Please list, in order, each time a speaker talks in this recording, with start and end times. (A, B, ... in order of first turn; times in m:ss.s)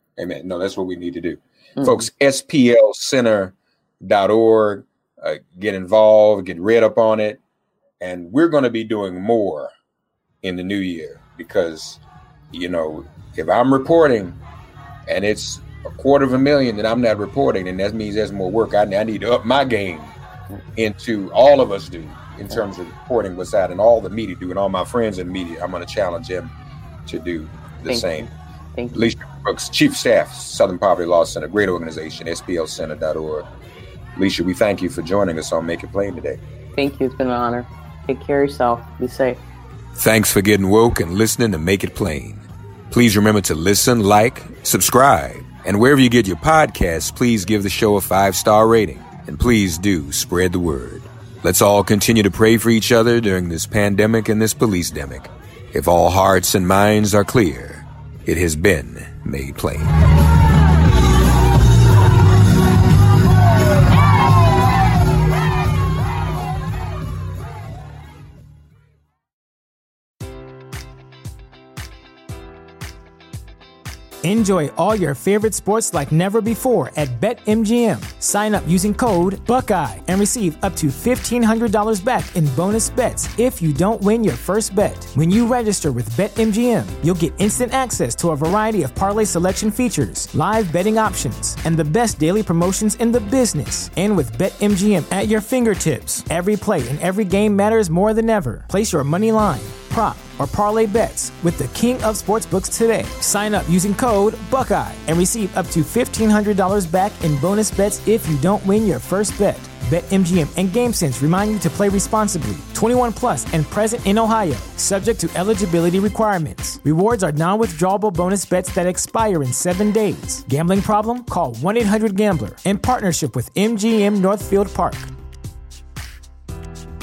0:00.2-0:07.4 A
0:01.8-0:02.0 B
0:08.0-0:09.7 A
0:10.4-0:14.4 A
0:15.0-0:20.2 A
0:20.8-0:26.5 A
0:27.0-0:28.3 A
0:27.9-0:29.0 B
0:28.9-0:33.5 A
0:34.1-0:36.4 A
0:36.8-0:39.4 B
0:39.9-0:59.9 A
1:14.2-2:05.1 C